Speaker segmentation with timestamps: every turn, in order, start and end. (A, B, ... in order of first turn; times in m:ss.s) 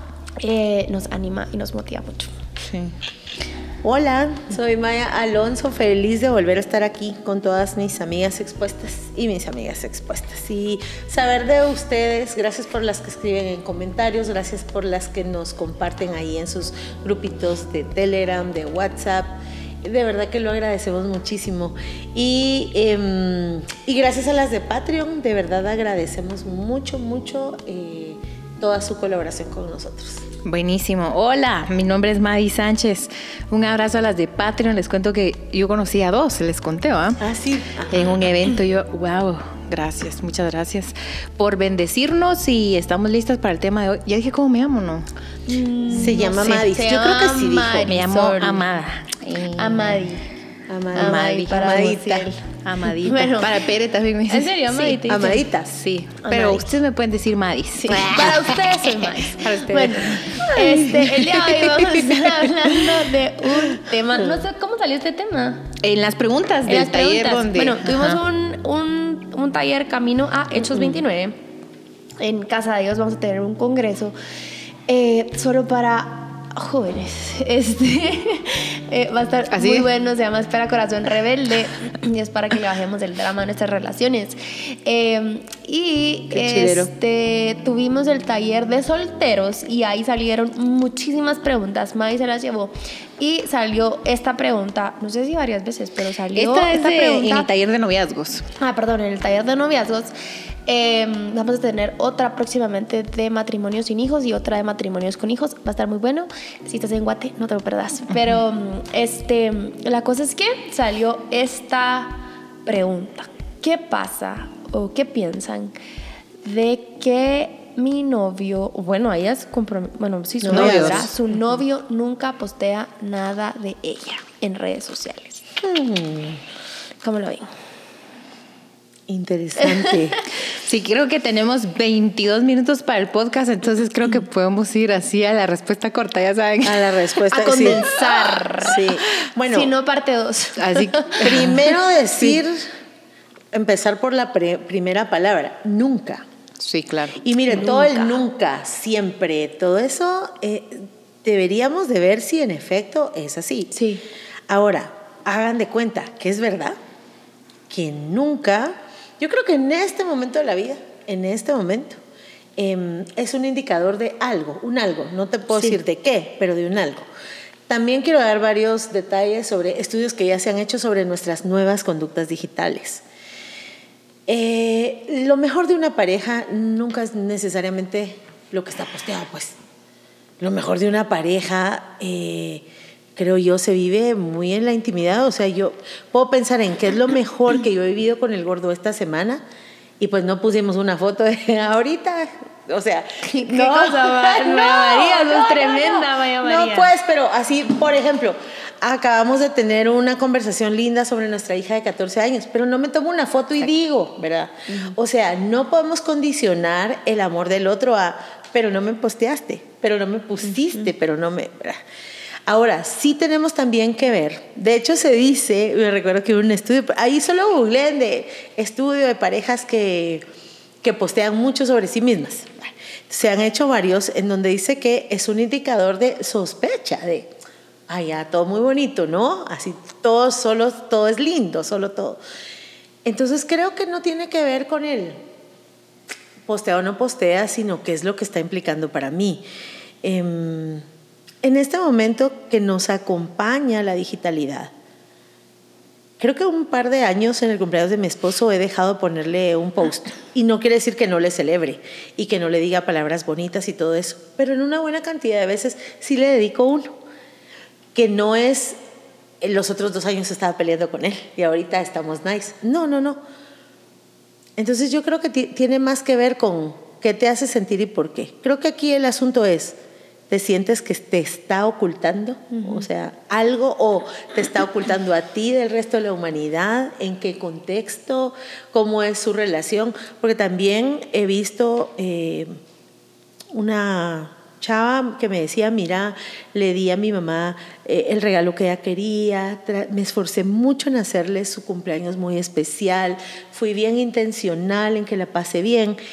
0:00.4-0:02.3 A
0:02.6-0:02.9 B
0:03.8-0:30.3 C
0:30.4-0:37.2 B
0:37.2-0:38.3 C
0:37.9-0:45.1 B
0:45.5-0:48.6 A
0:45.9-0:48.0 C
0:46.0-0:46.7 B
0:47.8-0:50.1 B
0:49.6-0:50.2 A
0:50.7-0:52.3 C
0:50.9-0:52.5 A
0:51.0-0:51.9 B
0:52.6-0:55.0 B
0:53.0-0:53.6 A
0:54.3-0:55.4 A
0:55.1-0:55.8 C
0:55.7-1:03.0 B
0:56.2-0:56.8 A
0:57.9-1:05.7 A
1:05.8-1:08.2 B
1:06.7-1:11.4 A
1:12.2-1:14.1 A
1:14.9-1:37.5 A
1:19.5-1:19.9 B
1:26.3-1:26.9 C
1:36.4-1:38.5 B
1:38.6-1:40.1 A
1:40.7-1:55.7 A
1:56.4-2:05.4 A
2:00.4-2:01.1 C
2:00.5-2:01.1 B
2:05.6-2:06.4 C
2:07.0-2:07.5 A
2:09.1-2:10.2 C
2:09.6-2:10.2 A
2:10.5-2:17.1 B
2:16.6-2:19.7 C
2:17.3-2:21.6 A
2:18.0-2:18.4 B
2:20.6-2:21.6 B
2:21.2-2:22.6 C
2:23.5-2:26.2 C
2:26.6-2:27.2 B
2:27.2-2:33.7 C
2:27.5-2:28.1 A
2:33.7-2:34.0 A
2:34.5-2:36.8 C
2:37.7-2:42.0 C
2:42.6-2:47.1 C
2:47.7-2:53.0 C
2:54.3-2:59.6 C
3:00.4-3:09.4 C
3:10.0-3:31.8 C
3:13.2-3:16.9 A
3:24.7-3:25.0 A
3:32.5-3:40.2 C
3:40.8-3:47.3 C
3:47.9-3:52.2 C
3:53.0-3:55.2 C
3:56.5-3:59.4 C
4:00.0-4:00.8 C
4:01.4-4:04.7 C
4:06.2-4:16.9 C
4:18.0-4:18.8 C
4:19.4-4:23.2 C
4:24.6-4:29.8 C
4:30.3-4:42.5 C
4:32.5-4:32.8 A
4:43.5-4:56.0 C